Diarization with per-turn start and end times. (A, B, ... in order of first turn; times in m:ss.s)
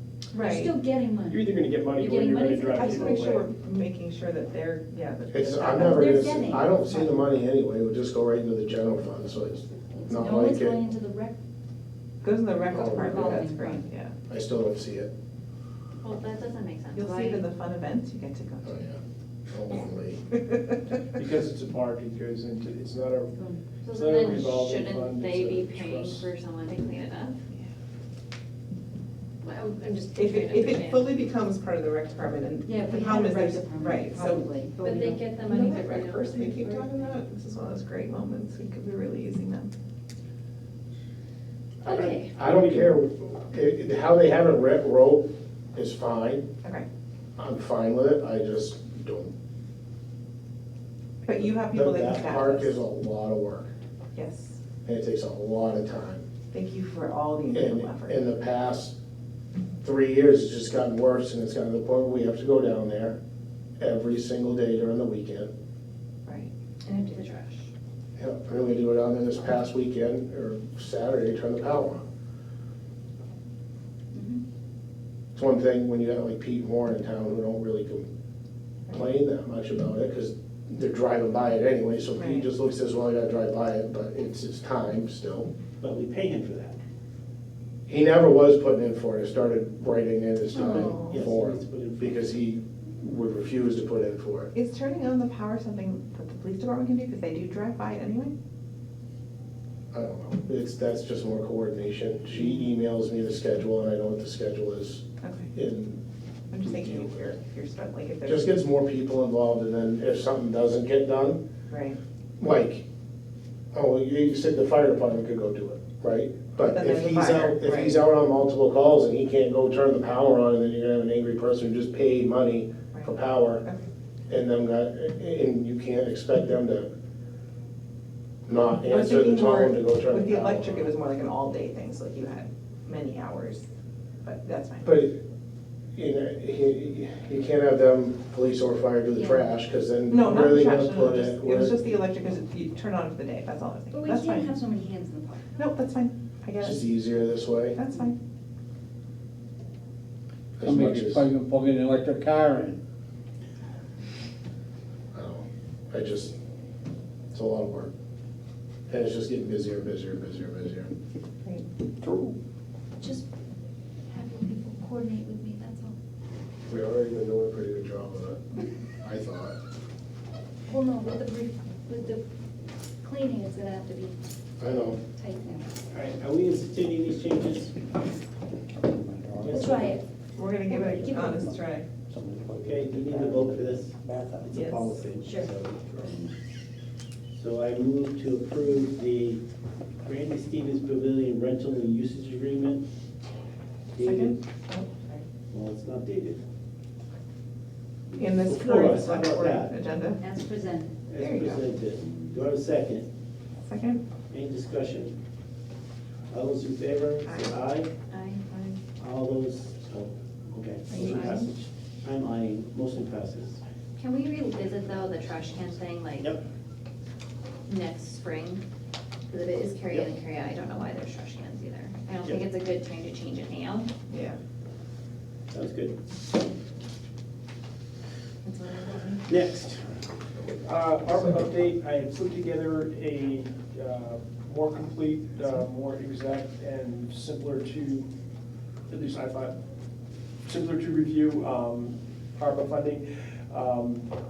0:00.3-0:00.7 A
0:00.4-0:01.4 B
0:01.2-0:03.5 C
0:02.0-0:03.1 B
0:02.7-0:07.1 A
0:05.3-0:10.8 D
0:05.8-0:06.7 B
0:09.9-0:11.4 B
0:12.2-0:14.1 A
0:12.7-0:13.4 D
0:12.8-0:13.8 B
0:14.3-0:15.1 D
0:16.0-0:17.4 E
0:16.9-0:18.7 A
0:18.6-0:20.2 D
0:20.5-0:20.9 A
0:21.2-0:23.3 C
0:23.3-0:23.6 B
0:23.8-0:27.4 E
0:23.9-0:26.3 C
0:29.4-0:31.0 E
0:30.1-0:39.7 A
0:32.6-0:34.8 B
0:34.8-0:37.0 E
0:41.8-0:42.3 E
0:41.8-0:42.9 F
0:41.8-0:46.4 D
0:47.4-0:49.3 D
0:51.2-0:52.8 A
0:51.7-0:53.7 D
0:54.1-0:54.6 A
0:54.8-0:56.2 D
0:56.5-0:58.2 A
0:57.5-0:59.0 D
0:59.8-1:03.2 D
1:03.8-1:05.5 D
1:06.2-1:07.3 A
1:06.9-1:07.6 E
1:08.2-1:12.0 D
1:15.3-1:18.0 D
1:18.9-1:25.5 D
1:22.2-1:22.5 A
1:25.8-1:26.8 F
1:27.9-1:34.5 D
1:30.6-1:31.2 A
1:30.8-1:32.4 F
1:34.5-1:38.3 A
1:39.9-1:45.0 D
1:45.2-1:45.5 A
1:45.5-1:46.0 D
1:46.5-1:48.5 A
1:46.6-1:47.2 D
1:48.2-1:51.4 D
1:51.7-1:52.0 A
1:52.4-1:52.8 D
1:53.7-2:03.6 D
1:56.7-1:58.0 A
2:02.9-2:03.8 A
2:04.3-2:06.9 D
2:08.5-2:10.8 D
2:08.9-2:13.6 A
2:14.2-2:14.9 A
2:14.8-2:15.2 D
2:15.9-2:21.8 D
2:19.2-2:19.4 B
2:20.1-2:24.5 A
2:23.9-2:25.5 B
2:25.6-2:26.8 A
2:26.6-2:27.8 D
2:27.7-2:28.2 A
2:30.6-2:31.3 D
2:30.6-2:32.8 G
2:35.1-2:36.3 D
2:37.3-2:37.9 D
2:38.9-2:40.9 D
2:43.0-2:43.2 B
2:44.1-2:45.9 B
2:46.7-2:48.4 D
2:49.0-2:49.6 D
2:50.7-2:52.2 B
2:53.0-2:54.2 B
2:54.6-2:55.0 D
2:55.2-2:55.7 B
2:55.9-2:57.8 F
2:58.8-2:59.6 G
2:59.4-3:00.0 F
2:59.5-3:00.0 B
3:00.4-3:01.9 A
3:00.7-3:01.4 B
3:02.1-3:04.5 G
3:02.6-3:06.3 F
3:04.5-3:04.8 A
3:05.2-3:05.5 B
3:07.3-3:09.4 F
3:10.0-3:12.8 F
3:13.9-3:14.4 F
3:14.0-3:15.2 A
3:15.5-3:16.4 F
3:18.1-3:20.2 A
3:18.4-3:19.8 F
3:20.2-3:21.0 B
3:21.0-3:23.0 F
3:21.1-3:21.6 A
3:23.6-3:24.0 A
3:24.3-3:25.1 F
3:26.3-3:27.9 F
3:27.2-3:27.5 A
3:28.1-3:28.4 E
3:28.5-3:28.8 A
3:29.0-3:33.6 F
3:30.9-3:31.5 A
3:34.0-3:36.3 E
3:36.2-3:36.4 F
3:37.7-3:38.6 E
3:39.3-3:43.9 E
3:44.1-3:44.4 A
3:45.5-3:46.0 F
3:48.4-3:49.2 A
3:49.3-3:49.8 F
3:50.6-3:58.1 C
3:58.9-3:59.6 C
4:00.4-4:04.1 C